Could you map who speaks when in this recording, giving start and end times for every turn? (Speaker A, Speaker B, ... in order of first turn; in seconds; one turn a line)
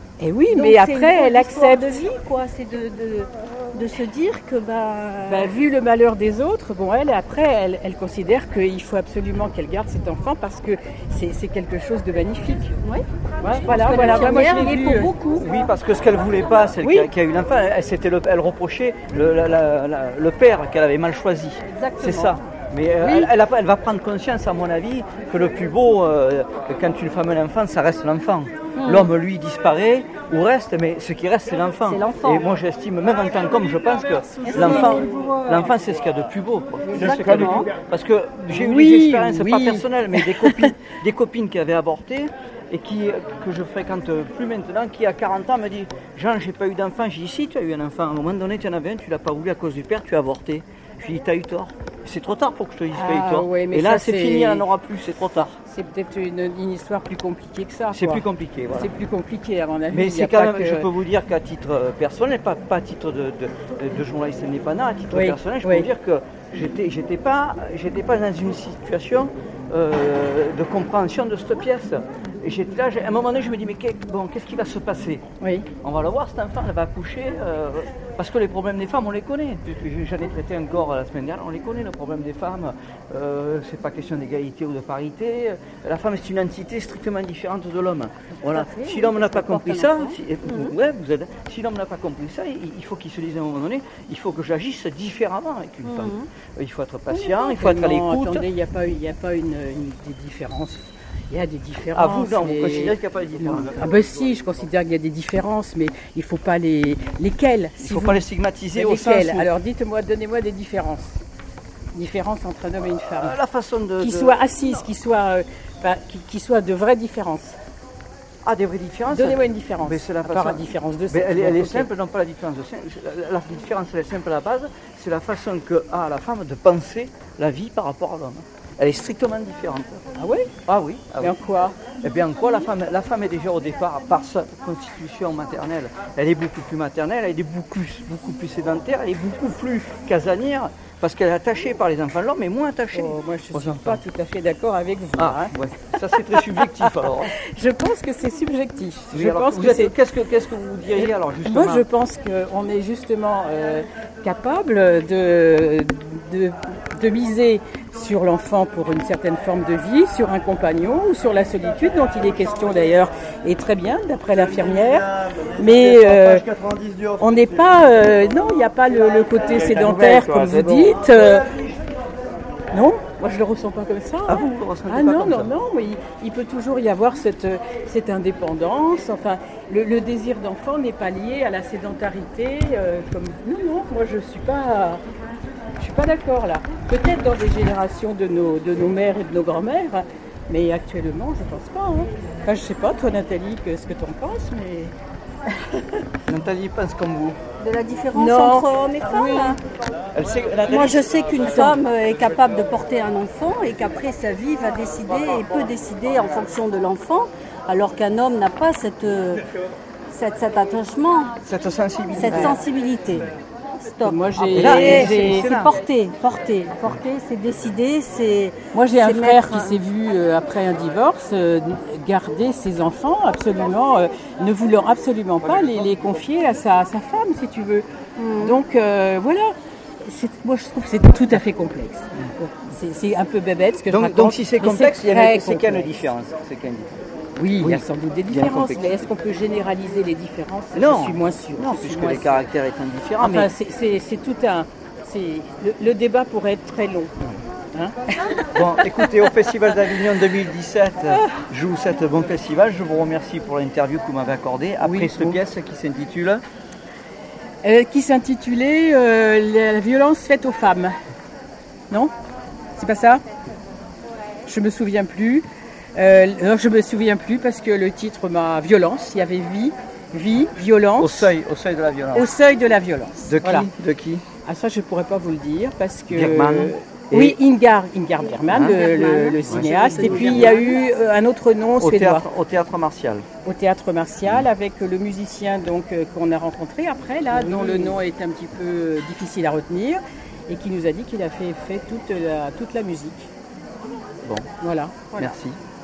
Speaker A: 0.2-2.0
Speaker B: 0.5-5.5
Speaker A: 5.3-12.7
Speaker B: 12.8-15.4
Speaker A: 13.4-15.1
Speaker C: 14.0-14.5
Speaker C: 15.3-55.6
Speaker A: 16.8-17.1
Speaker A: 21.7-22.5
Speaker A: 23.0-23.3
Speaker B: 28.8-29.1
Speaker B: 31.9-32.5
Speaker A: 34.4-35.0
Speaker B: 34.5-35.0
Speaker B: 36.9-37.7
Speaker A: 38.5-40.7
Speaker A: 52.9-54.6
Speaker A: 55.7-60.9
Speaker C: 57.9-58.9
Speaker C: 59.9-75.2
Speaker A: 65.1-65.9
Speaker A: 75.4-75.7
Speaker C: 75.8-98.5
Speaker B: 88.6-90.0
Speaker B: 95.9-96.3
Speaker A: 97.1-111.2
Speaker C: 101.9-103.8
Speaker C: 107.8-109.5
Speaker A: 111.9-113.4
Speaker C: 113.2-114.5
Speaker A: 114.0-117.6
Speaker C: 118.4-130.0
Speaker A: 119.1-121.9
Speaker A: 130.2-130.5
Speaker C: 130.7-131.4
Speaker A: 131.2-131.8
Speaker C: 131.9-144.0
Speaker A: 142.9-145.5
Speaker C: 145.2-147.4
Speaker A: 146.1-149.9
Speaker C: 149.1-151.9
Speaker A: 150.9-166.4
Speaker A: 167.2-171.5
Speaker C: 169.6-171.0
Speaker A: 172.7-185.0
Speaker C: 174.3-175.5
Speaker A: 185.8-194.9
Speaker C: 196.3-197.4
Speaker B: 197.6-199.6
Speaker A: 198.1-199.6
Speaker C: 200.1-201.3
Speaker B: 200.7-209.4
Speaker A: 201.4-201.8
Speaker B: 210.1-211.3
Speaker C: 211.4-212.6
Speaker B: 212.2-219.8
Speaker A: 212.2-212.6
Speaker A: 214.0-215.7
Speaker C: 214.5-215.8
Speaker A: 218.7-227.8
Speaker B: 228.2-228.6
Speaker A: 228.4-236.1
Speaker C: 233.9-236.9
Speaker A: 237.4-242.4
Speaker C: 237.6-239.1
Speaker C: 240.7-243.5
Speaker A: 243.2-247.1
Speaker A: 247.7-249.8
Speaker C: 248.5-256.4
Speaker A: 251.1-251.4
Speaker A: 254.8-255.4
Speaker A: 257.6-260.9
Speaker A: 262.7-263.2
Speaker A: 264.4-271.3
Speaker C: 271.0-272.3
Speaker A: 272.1-273.7
Speaker C: 273.2-274.2
Speaker A: 274.4-282.2
Speaker C: 276.1-277.4
Speaker B: 278.4-280.9
Speaker C: 278.5-278.8
Speaker C: 279.4-280.6
Speaker C: 281.8-283.2
Speaker A: 283.4-293.3
Speaker B: 287.3-288.0
Speaker C: 294.2-294.5
Speaker A: 294.6-295.3
Speaker C: 295.1-295.6